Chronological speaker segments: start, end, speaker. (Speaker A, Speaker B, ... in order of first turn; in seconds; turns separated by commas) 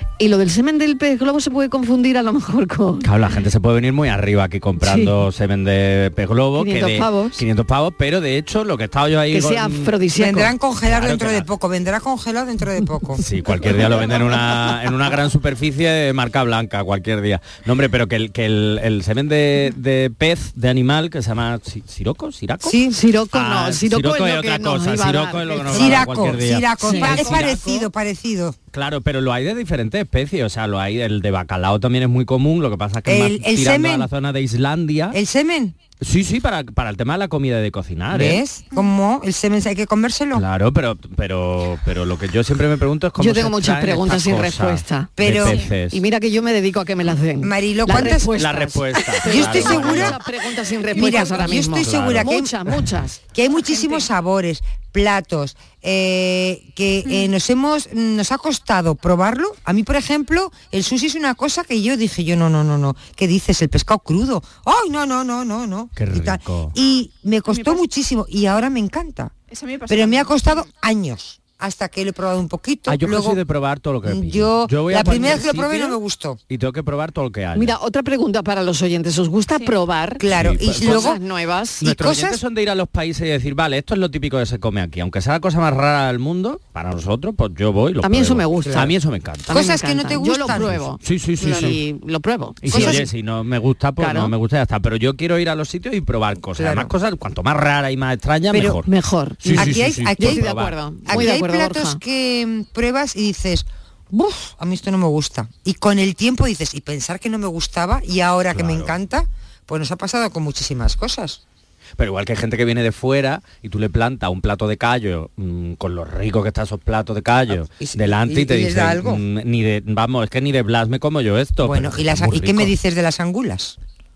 Speaker A: 0.2-3.0, Speaker B: 3.0-9.9, Speaker A: 4.8-5.1, Speaker A: 6.6-7.4, Speaker A: 9.3-10.5, Speaker C: 10.1-13.2, Speaker B: 10.8-11.5, Speaker B: 13.2-27.5, Speaker C: 22.6-23.0, Speaker A: 22.9-26.1, Speaker C: 25.7-28.6, Speaker A: 26.9-27.6, Speaker D: 26.9-27.5, Speaker B: 28.7-35.2, Speaker C: 33.0-34.1, Speaker C: 35.1-35.8, Speaker B: 36.0-38.4, Speaker C: 38.1-40.4, Speaker B: 40.3-46.0, Speaker A: 43.2-45.1, Speaker C: 45.2-45.6, Speaker A: 45.9-53.2, Speaker C: 47.4-48.3, Speaker B: 47.9-50.2, Speaker C: 49.2-50.2, Speaker C: 50.9-52.5, Speaker D: 50.9-51.6, Speaker B: 51.7-52.3, Speaker C: 53.3-69.3, Speaker D: 53.5-54.1, Speaker B: 66.0-66.7, Speaker D: 67.5-67.8, Speaker D: 69.5-70.7, Speaker C: 69.9-73.4, Speaker B: 72.9-77.7, Speaker C: 74.0-76.4, Speaker A: 77.5-80.2, Speaker C: 80.2-81.2, Speaker B: 80.3-81.2, Speaker A: 80.8-81.8, Speaker B: 81.8-89.6, Speaker C: 81.8-82.4, Speaker A: 88.0-88.9, Speaker C: 89.5-90.8, Speaker A: 89.5-93.0, Speaker B: 90.5-91.8, Speaker B: 92.6-98.9, Speaker C: 92.7-93.1, Speaker A: 94.0-94.3, Speaker C: 96.5-96.9, Speaker C: 98.5-98.8, Speaker A: 98.8-102.0, Speaker C: 99.4-100.5, Speaker B: 99.4-101.3, Speaker C: 101.0-111.4, Speaker B: 108.5-108.9, Speaker B: 112.0-122.7, Speaker C: 117.5-119.2, Speaker C: 121.6-123.8